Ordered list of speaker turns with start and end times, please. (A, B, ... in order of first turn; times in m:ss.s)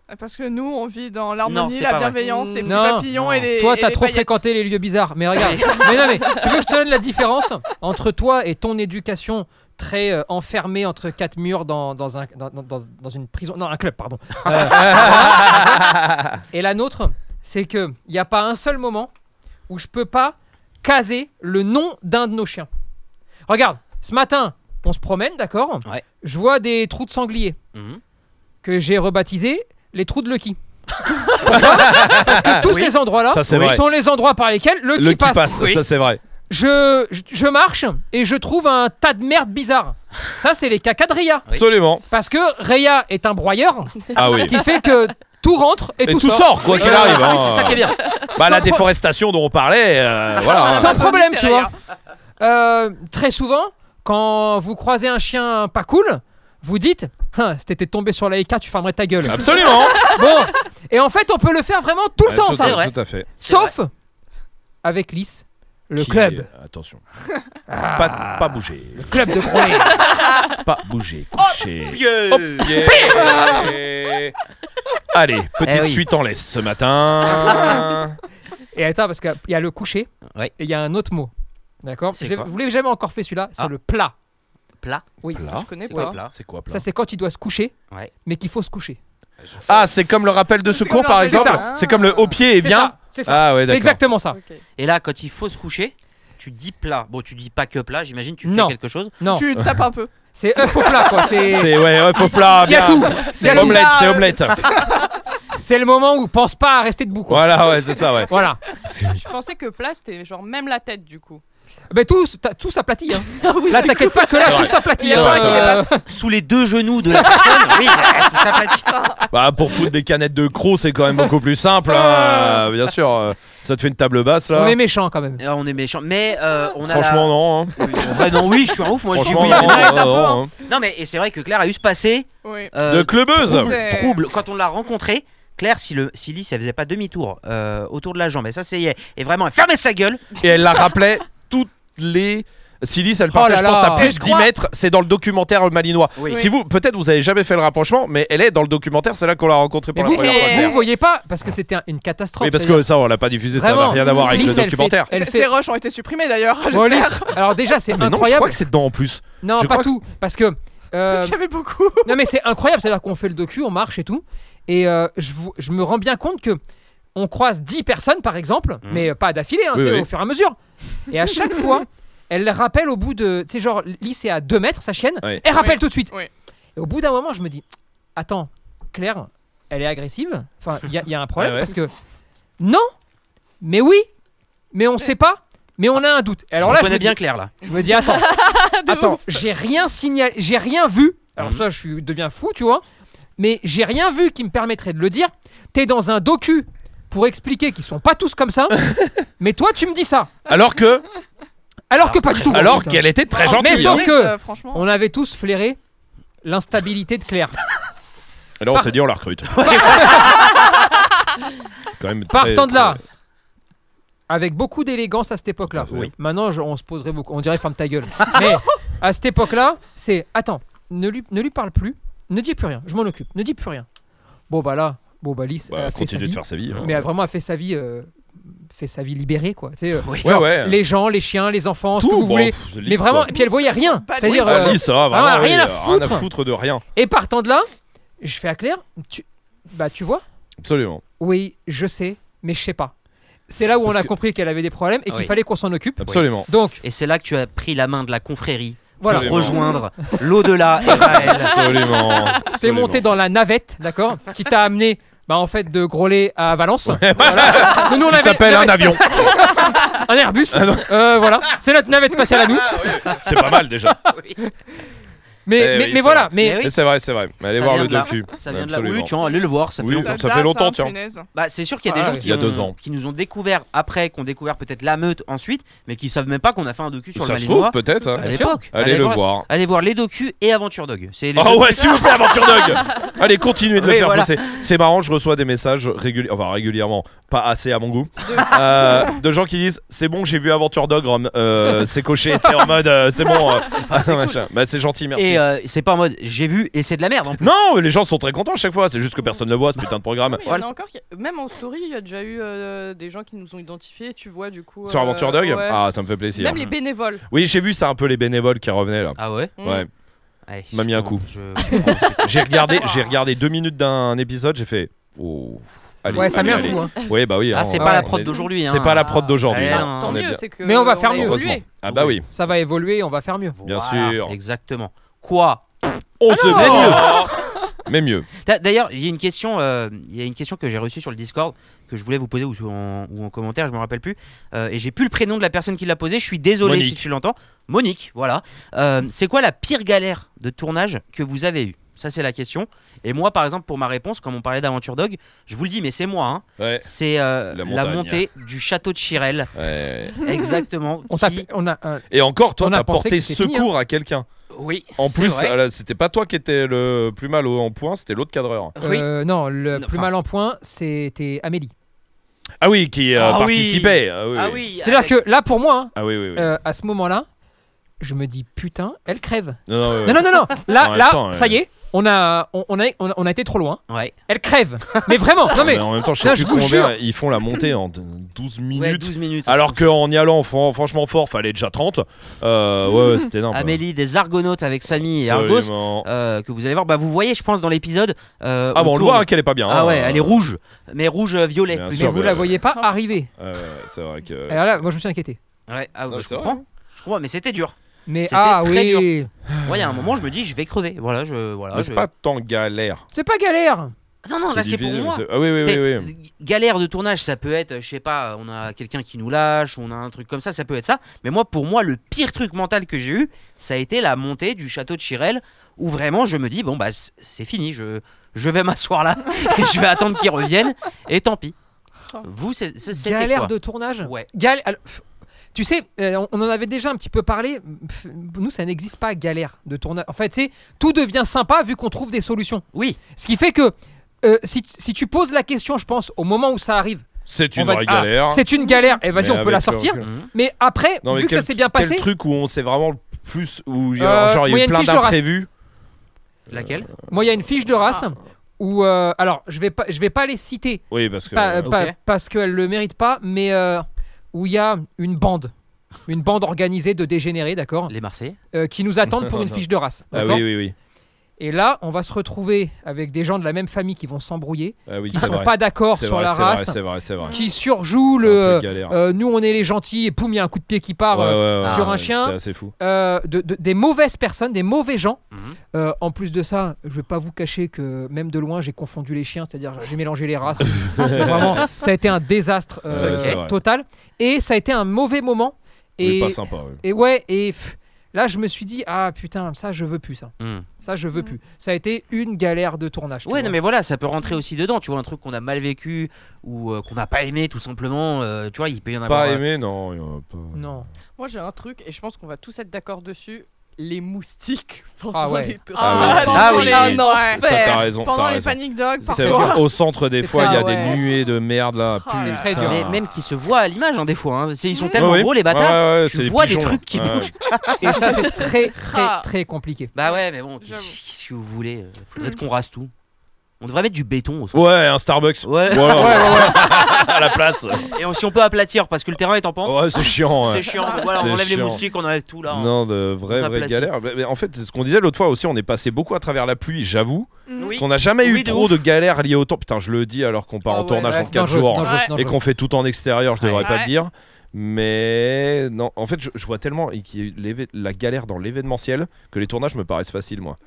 0:00.1-0:04.4 A
0:01.4-0:02.2 B
0:02.2-0:02.8 C
0:02.6-0:16.0 D
0:05.3-0:06.3 B
0:14.5-0:16.2 E
0:16.5-0:19.1 D
0:19.7-0:22.7 D
0:23.5-0:27.6 D
0:27.7-0:28.0 B
0:28.6-0:30.6 D
0:31.2-0:32.9 B
0:31.3-0:35.6 D
0:31.4-0:32.7 E
0:33.3-0:33.8 E
0:34.9-0:36.2 E
0:35.5-0:35.8 B
0:36.5-0:41.5 D
0:41.5-0:42.1 E
0:42.1-0:47.0 D
0:44.1-0:44.5 E
0:46.0-0:51.0 E
0:46.6-0:48.1 B
0:48.4-0:48.8 D
0:50.4-0:51.7 A
0:50.6-0:51.7 D
0:52.4-1:02.8 D
0:59.2-1:00.0 E
1:02.2-1:03.3 E
1:02.5-1:03.7 B
1:03.4-1:03.9 D
1:04.8-1:06.5 D
1:06.0-1:07.0 E
1:07.7-1:10.0 D
1:08.0-1:09.4 E
1:10.6-1:14.3 E
1:11.8-1:13.1 B
1:13.1-1:13.7 A
1:15.1-1:18.2 E
1:15.6-1:16.0 B
1:17.5-1:17.8 B
1:18.7-1:21.3 D
1:21.8-1:24.1 D
1:22.1-1:22.5 B
1:24.8-1:25.0 B
1:25.2-1:26.1 D
1:25.3-1:26.8 E
1:25.5-1:26.2 C
1:25.8-1:26.3 B
1:26.7-1:29.0 D
1:29.4-1:29.9 B
1:29.6-1:34.0 E
1:30.6-1:31.6 A
1:31.2-1:31.6 D
1:31.3-1:32.4 C
1:32.5-1:34.4 D
1:34.3-1:34.6 C
1:34.8-1:39.2 B
1:38.4-1:39.5 D
1:39.2-1:40.1 A
1:39.6-1:39.8 E
1:40.3-1:44.0 D
1:40.8-1:41.2 A
1:41.5-1:44.7 E
1:43.2-1:45.1 A
1:45.6-1:47.7 D
1:47.3-1:48.3 E
1:48.3-1:48.6 D
1:48.8-1:49.2 E
1:49.2-1:51.4 C
1:51.9-1:56.0 D
1:53.4-1:56.0 A
1:53.7-1:54.1 C
1:54.4-1:55.8 E
1:56.0-1:58.8 B
1:57.1-1:57.9 D
1:58.8-1:59.3 A
1:59.3-2:04.8 E
2:02.0-2:02.6 A
2:04.5-2:05.4 D
2:05.4-2:10.0 B
2:06.8-2:08.4 E
2:09.1-2:10.5 E
2:09.2-2:10.5 A
2:10.6-2:20.3 B
2:12.4-2:12.7 A
2:12.8-2:13.8 E
2:13.4-2:14.2 A
2:20.4-2:30.7 E
2:23.3-2:24.2 D
2:24.0-2:24.5 A
2:26.2-2:26.4 B
2:29.9-2:32.9 D
2:30.0-2:30.8 A
2:32.4-2:35.1 E
2:33.5-2:35.5 D
2:33.9-2:37.5 A
2:36.7-2:38.6 D
2:37.9-2:39.9 E
2:39.4-2:41.4 D
2:41.1-2:42.2 A
2:42.0-2:46.6 D
2:47.1-2:56.2 D
2:48.8-2:49.1 B
2:49.7-2:50.1 E
2:55.5-2:56.3 A
2:56.8-2:57.6 D
2:58.2-3:01.9 D
3:01.4-3:01.7 E
3:02.6-3:02.9 D
3:03.6-3:04.1 D
3:04.7-3:12.8 D
3:06.6-3:07.5 B
3:08.1-3:09.4 C
3:11.4-3:11.6 B
3:13.4-3:18.8 D
3:18.8-3:19.1 E
3:19.4-3:20.3 D
3:20.4-3:21.0 E
3:21.9-3:25.8 D
3:22.0-3:22.8 B
3:22.5-3:24.1 E
3:23.3-3:24.8 A
3:26.4-3:27.6 D
3:28.6-3:30.1 E
3:29.5-3:30.8 B
3:29.6-3:30.3 D
3:32.0-3:33.0 E
3:32.3-3:33.0 D
3:34.3-3:43.8 D
3:35.7-3:36.1 E
3:44.5-3:48.2 D
3:45.7-3:47.0 E
3:48.7-3:56.3 D
3:50.0-3:50.4 B
3:50.2-3:50.8 E
3:52.0-3:53.3 E
3:53.3-3:54.8 A
3:54.3-3:56.8 E
3:56.9-3:57.7 D
3:58.2-4:00.2 D
4:00.6-4:01.0 E
4:01.2-4:02.9 D
4:03.5-4:06.8 D
4:03.8-4:04.1 E
4:06.0-4:06.5 E
4:06.0-4:11.7 B
4:09.0-4:09.7 D
4:09.0-4:09.8 E
4:10.8-4:13.0 E
4:12.5-4:23.0 D
4:16.8-4:19.5 E
4:20.5-4:21.4 E
4:22.3-4:24.1 E
4:24.0-4:24.4 B
4:25.4-4:26.7 D
4:25.6-4:29.1 E
4:26.4-4:26.7 B
4:27.5-4:30.2 B
4:29.8-4:30.9 E
4:30.0-4:31.3 A
4:31.3-4:42.6 B
4:31.9-4:32.3 D
4:32.1-4:32.7 E
4:37.2-4:39.4 E
4:38.2-4:38.6 D
4:41.3-4:55.4 E
4:43.7-4:44.5 B
4:53.6-4:54.4 B
4:55.1-4:57.5 B
4:57.4-5:00.5 E
5:00.3-5:07.2 C
5:04.8-5:06.6 E
5:07.3-5:09.9 E
5:09.2-5:09.5 B
5:09.6-5:09.9 C
5:10.5-5:12.7 B
5:10.7-5:11.3 E
5:12.2-5:20.4 E
5:16.1-5:16.8 B
5:16.1-5:16.9 D
5:17.5-5:20.2 B
5:17.7-5:18.1 D
5:19.6-5:21.7 C
5:20.6-5:23.6 D
5:21.1-5:22.2 E
5:21.9-5:22.2 B
5:23.6-5:27.2 B
5:23.6-5:24.4 E
5:26.2-5:28.3 E
5:26.5-5:27.2 D
5:28.4-5:49.5 B
5:36.6-5:37.1 E
5:46.6-5:46.8 E
5:47.5-5:48.2 E
5:49.5-5:50.2 E
5:50.2-5:51.5 B
5:51.1-5:52.0 D
5:52.1-5:54.2 E
5:52.6-5:53.7 D
5:54.5-5:55.5 B
5:55.0-5:58.7 E
5:58.8-5:59.1 B
5:58.8-6:01.7 D
5:59.7-6:00.1 B
6:02.6-6:04.6 E
6:03.2-6:05.2 B
6:04.8-6:07.2 D
6:05.9-6:06.5 E
6:08.0-6:17.0 D
6:09.7-6:11.6 E
6:13.9-6:14.1 B
6:15.5-6:23.8 E
6:18.7-6:19.8 B
6:23.5-6:32.3 B
6:25.0-6:26.1 E
6:28.7-6:30.4 E
6:31.7-6:32.5 E
6:31.9-6:33.3 D
6:33.4-6:34.8 E
6:34.5-6:35.4 D
6:35.7-6:39.1 B
6:36.1-6:36.6 E
6:38.1-6:39.3 D
6:39.6-6:39.9 E
6:39.6-6:42.1 B
6:41.7-6:43.0 E
6:43.1-6:43.9 D
6:44.2-7:01.5 B
6:44.4-6:46.1 E
7:02.2-7:03.5 B
7:02.9-7:22.1 D
7:12.7-7:13.0 B
7:17.3-7:18.4 E
7:19.1-7:20.1 E
7:20.0-7:20.3 B
7:21.0-7:25.5 E
7:24.0-7:25.2 D
7:26.5-7:26.9 E
7:26.5-7:26.9 B
7:27.1-7:35.5 D
7:30.9-7:31.7 E
7:31.6-7:31.9 B
7:36.1-7:37.9 D
7:37.9-7:38.4 B
7:38.5-7:40.5 D
7:39.1-7:39.6 E
7:40.1-7:40.7 E
7:41.4-7:46.8 D
7:44.9-7:47.4 E
7:47.2-7:47.5 A
7:47.3-7:55.2 D
7:48.1-7:49.0 E
7:51.1-7:52.7 E
7:51.6-7:51.9 B
7:55.3-7:55.6 B
7:55.7-8:13.6 D
8:00.7-8:01.6 E
8:02.9-8:03.6 E
8:03.0-8:03.4 B
8:06.0-8:06.8 E
8:10.4-8:10.7 B
8:13.2-8:19.4 B
8:19.1-8:20.8 E
8:20.5-8:20.9 D
8:21.2-8:26.7 C
8:25.1-8:25.6 D
8:25.7-8:29.7 A
8:25.8-8:33.0 E
8:26.1-8:27.1 B
8:29.1-8:29.6 D
8:30.3-8:31.0 D
8:30.3-8:31.0 A
8:32.0-8:32.7 A
8:32.2-8:32.8 D
8:32.6-8:38.3 B
8:34.7-8:35.1 A
8:34.9-8:37.3 E
8:37.8-8:39.9 D
8:37.8-8:39.3 A
8:39.9-8:42.9 B
8:40.0-8:41.0 A
8:43.6-8:44.7 B
8:44.5-8:47.9 E
8:45.4-8:47.0 B
8:45.7-8:46.7 D
8:47.9-8:53.9 B
8:49.6-8:51.8 E
8:50.8-8:51.0 A
8:52.5-9:10.6 E
8:57.5-8:57.8 A
8:57.6-8:58.8 B
9:00.7-9:01.3 C
9:01.0-9:02.4 D
9:01.8-9:02.1 A
9:03.4-9:03.7 B
9:03.6-9:03.9 A